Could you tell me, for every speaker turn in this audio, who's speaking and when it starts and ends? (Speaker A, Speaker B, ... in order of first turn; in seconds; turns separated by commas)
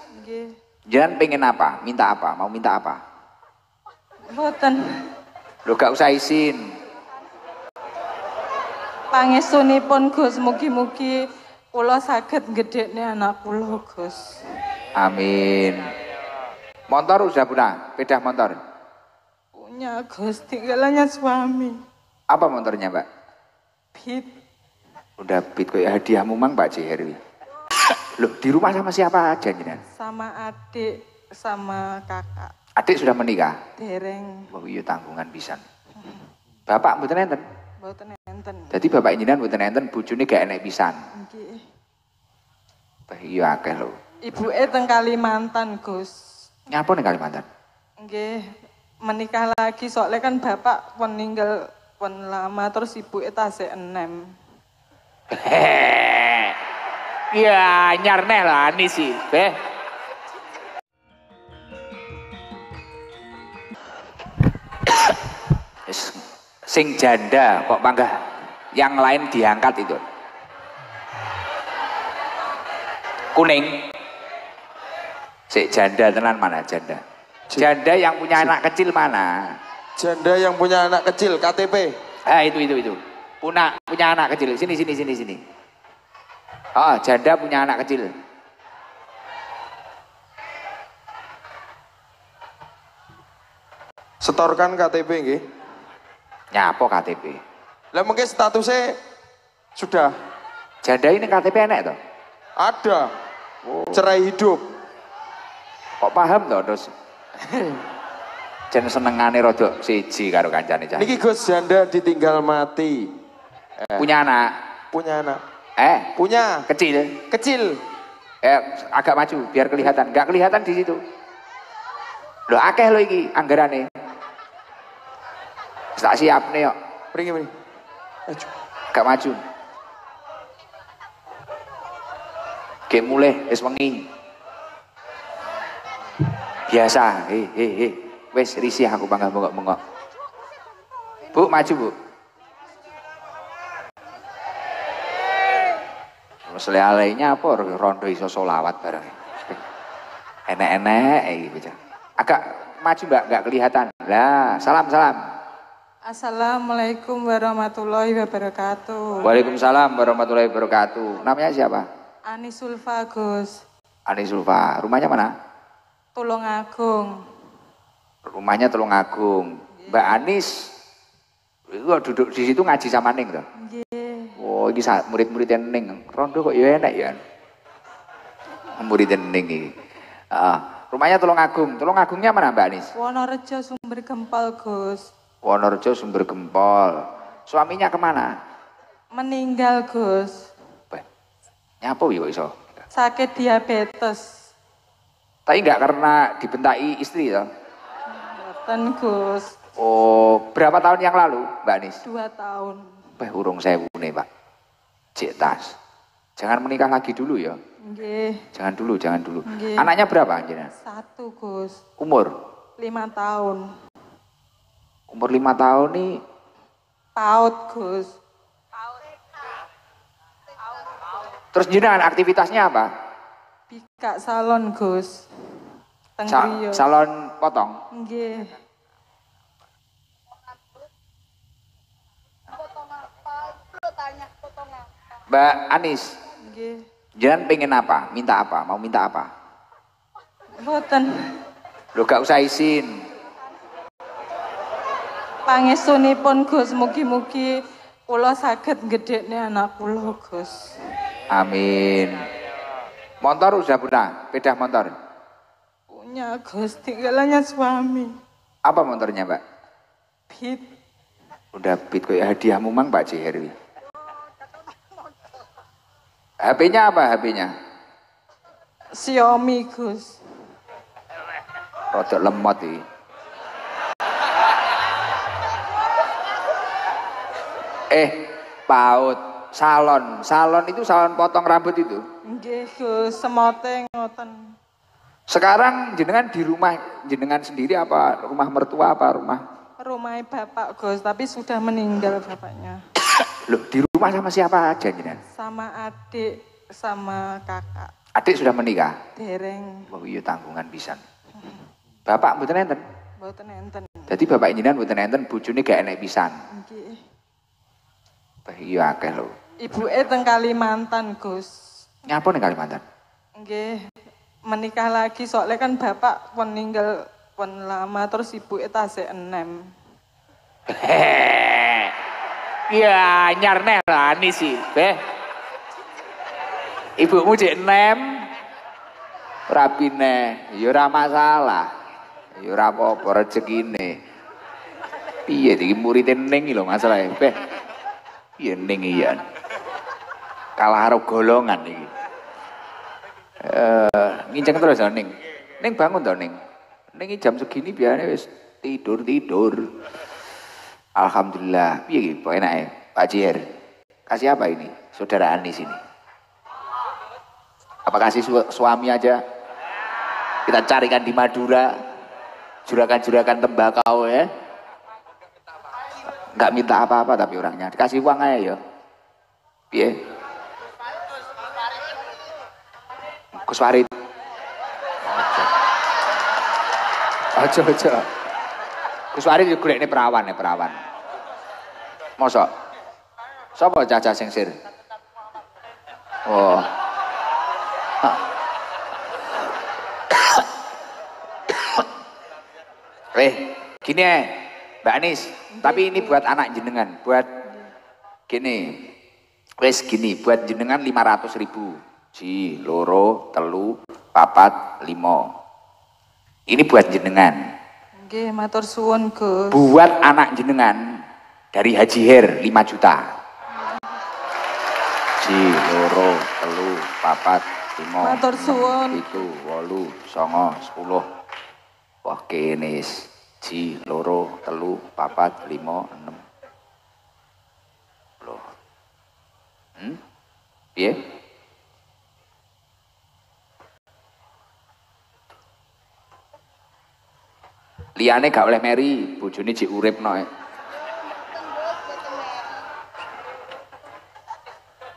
Speaker A: 0.2-0.5, Speaker B: 0.9-3.0, Speaker A: 4.3-4.8, Speaker B: 5.7-6.6, Speaker A: 9.1-14.4, Speaker B: 15.0-15.9, Speaker B: 16.9-18.6, Speaker A: 19.5-21.8, Speaker B: 22.3-23.1, Speaker A: 23.9-24.3, Speaker B: 25.2-27.2, Speaker B: 28.2-29.8, Speaker A: 29.9-32.5, Speaker B: 32.8-33.5, Speaker A: 33.8-34.5, Speaker B: 34.5-35.6, Speaker B: 36.7-37.4, Speaker A: 37.8-38.7, Speaker B: 38.7-41.0, Speaker A: 41.1-41.7, Speaker B: 43.1-43.9, Speaker A: 44.2-46.3, Speaker B: 46.7-47.5, Speaker A: 48.0-54.3, Speaker B: 55.3-56.6, Speaker B: 57.3-59.5, Speaker B: 64.9-65.1, Speaker B: 65.9-68.2, Speaker B: 68.7-70.0, Speaker B: 73.3-73.8, Speaker B: 75.5-77.0, Speaker B: 77.5-79.5, Speaker C: 80.0-81.9, Speaker B: 82.2-85.4, Speaker B: 86.7-88.1, Speaker C: 94.2-95.4, Speaker B: 96.5-97.4, Speaker C: 97.9-98.9, Speaker C: 99.7-100.1, Speaker B: 100.8-102.0, Speaker C: 102.6-103.1, Speaker B: 103.7-104.1, Speaker C: 103.9-104.6, Speaker B: 106.0-106.9, Speaker C: 107.5-107.8, Speaker B: 108.7-111.2, Speaker C: 110.9-113.1, Speaker C: 113.8-114.1, Speaker B: 113.9-114.6, Speaker C: 114.9-115.4, Speaker B: 115.8-116.1, Speaker C: 116.2-116.7, Speaker B: 116.7-117.2, Speaker C: 117.3-117.8, Speaker B: 118.4-121.0, Speaker B: 122.5-123.9, Speaker B: 126.0-126.7, Speaker C: 127.1-127.5, Speaker B: 128.9-129.4, Speaker B: 132.9-134.0, Speaker B: 136.7-139.8, Speaker B: 141.3-141.9, Speaker B: 146.5-149.6, Speaker B: 150.5-155.2, Speaker A: 156.0-159.3, Speaker B: 159.2-161.8, Speaker A: 162.3-163.6, Speaker B: 164.1-165.3, Speaker A: 166.1-167.2, Speaker B: 168.3-170.5, Speaker A: 169.8-170.2, Speaker B: 171.7-173.4, Speaker A: 173.6-174.4, Speaker B: 174.4-177.2, Speaker B: 178.8-179.7, Speaker B: 180.3-182.9, Speaker A: 182.9-185.1, Speaker B: 185.4-188.3, Speaker A: 189.1-190.5, Speaker B: 191.8-192.8, Speaker A: 192.9-194.3, Speaker B: 195.5-197.5, Speaker A: 198.1-199.5, Speaker B: 199.8-202.0, Speaker A: 202.0-202.9, Speaker B: 203.2-204.3, Speaker B: 205.2-205.7, Speaker B: 206.4-207.6, Speaker A: 207.9-208.4, Speaker B: 208.5-210.7, Speaker A: 209.4-209.9, Speaker A: 210.8-211.8, Speaker B: 212.0-212.3, Speaker A: 212.8-213.7, Speaker B: 215.1-216.1, Speaker A: 217.2-218.1, Speaker B: 221.5-222.9, Speaker A: 223.7-226.8, Speaker B: 226.3-227.8, Speaker A: 227.9-228.6, Speaker B: 235.3-236.2, Speaker A: 236.4-236.8, Speaker B: 237.2-239.3, Speaker A: 240.6-241.3, Speaker B: 241.9-243.0, Speaker A: 245.5-250.7, Speaker B: 251.3-252.3, Speaker B: 253.2-254.9, Speaker A: 255.9-258.1, Speaker B: 258.6-259.4, Speaker A: 260.3-260.7, Speaker B: 261.5-263.5, Speaker B: 266.4-267.5, Speaker A: 269.0-270.2, Speaker B: 271.9-272.8, Speaker B: 277.9-282.0, Speaker A: 282.3-284.5, Speaker B: 285.3-289.4, Speaker A: 289.8-292.8, Speaker B: 293.5-295.2, Speaker A: 295.3-297.9, Speaker B: 298.1-299.0, Speaker A: 299.1-299.9, Speaker B: 299.9-301.0, Speaker B: 302.1-302.8, Speaker A: 303.2-304.1, Speaker B: 304.1-306.3, Speaker A: 306.5-307.0, Speaker B: 308.4-309.3, Speaker A: 309.6-311.5, Speaker B: 312.1-312.8, Speaker A: 313.4-313.9, Speaker A: 314.5-319.7, Speaker B: 320.7-321.9, Speaker B: 322.7-325.0, Speaker B: 327.0-328.2, Speaker B: 329.5-331.7, Speaker B: 332.4-334.0, Speaker B: 335.3-337.4, Speaker B: 338.4-339.2, Speaker B: 340.6-341.9, Speaker B: 343.4-346.4, Speaker B: 346.9-349.6, Speaker B: 350.9-353.4, Speaker B: 354.1-355.8, Speaker B: 357.9-359.2, Speaker B: 360.4-361.7, Speaker B: 362.6-364.3, Speaker B: 366.3-368.6, Speaker B: 373.4-373.9, Speaker B: 375.0-375.5, Speaker B: 377.3-378.1, Speaker B: 379.1-380.8, Speaker B: 382.2-382.5, Speaker B: 383.5-384.5, Speaker B: 386.2-386.7, Speaker B: 393.1-397.3, Speaker A: 395.6-396.2, Speaker B: 398.3-398.8, Speaker B: 399.6-405.2, Speaker B: 406.5-407.4, Speaker A: 408.0-409.7, Speaker B: 409.5-410.8, Speaker B: 411.5-413.0, Speaker B: 415.2-421.0, Speaker A: 418.0-419.1, Speaker B: 422.0-426.2, Speaker B: 428.2-428.5, Speaker B: 438.0-440.3